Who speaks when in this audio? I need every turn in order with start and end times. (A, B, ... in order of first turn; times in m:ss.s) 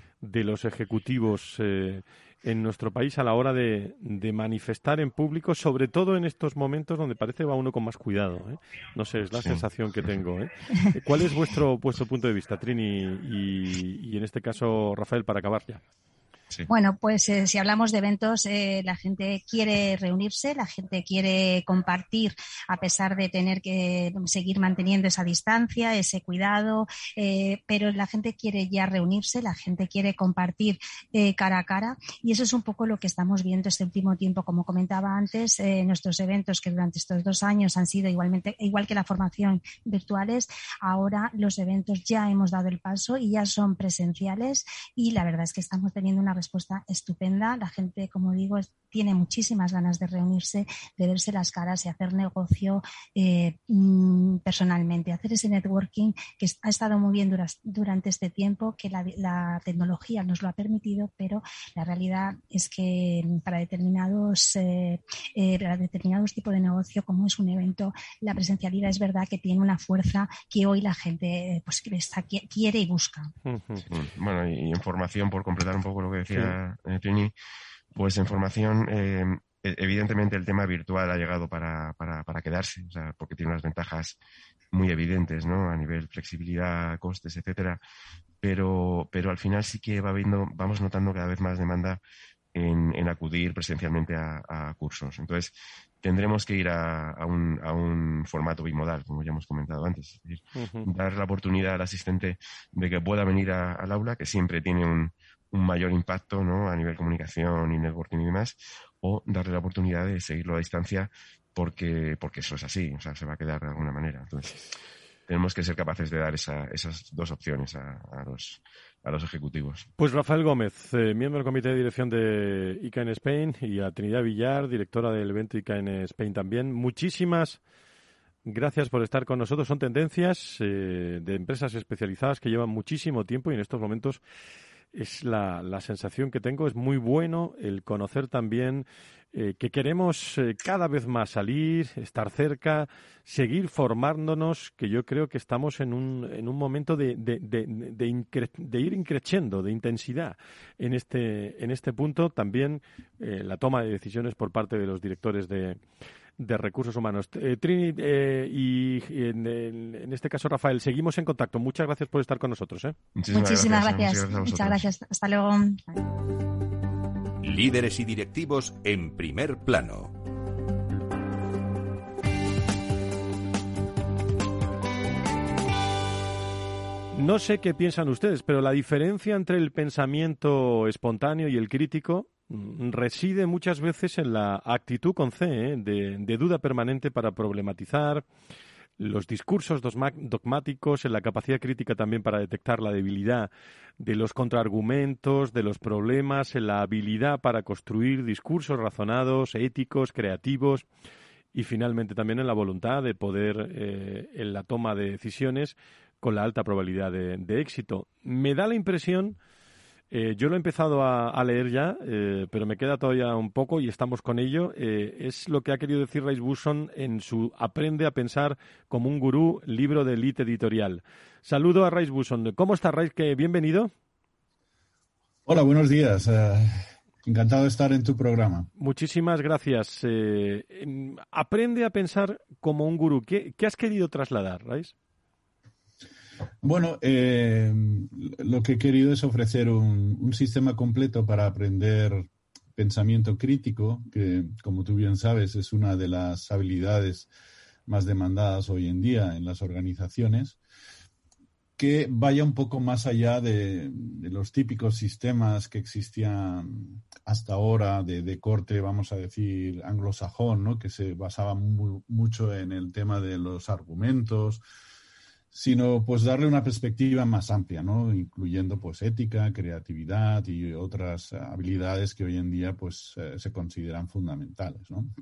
0:00.2-0:15.8 A
0:09.3-0:09.6 B
0:16.7-1:13.3 C
1:13.4-1:13.8 A
1:13.9-1:17.3 B
1:16.3-1:16.6 A
1:17.9-1:24.2 B
1:24.7-1:27.8 B
1:28.4-1:32.0 B
1:32.5-1:54.6 B
1:40.6-1:40.9 A
1:55.3-1:59.9 B
2:00.0-2:07.6 A
2:08.4-2:14.2 A
2:14.9-2:35.8 A
2:36.4-2:43.0 A
2:43.2-2:44.8 B
2:43.3-2:46.0 C
2:47.4-2:50.1 D
2:57.1-3:08.2 A
3:09.0-3:20.9 A
3:21.5-3:29.4 A
3:30.1-3:43.9 A
3:45.5-3:48.7 E
3:48.8-3:54.9 A
3:56.6-4:07.3 E
4:07.9-4:10.6 E
4:11.8-4:24.6 E
4:25.5-4:35.1 E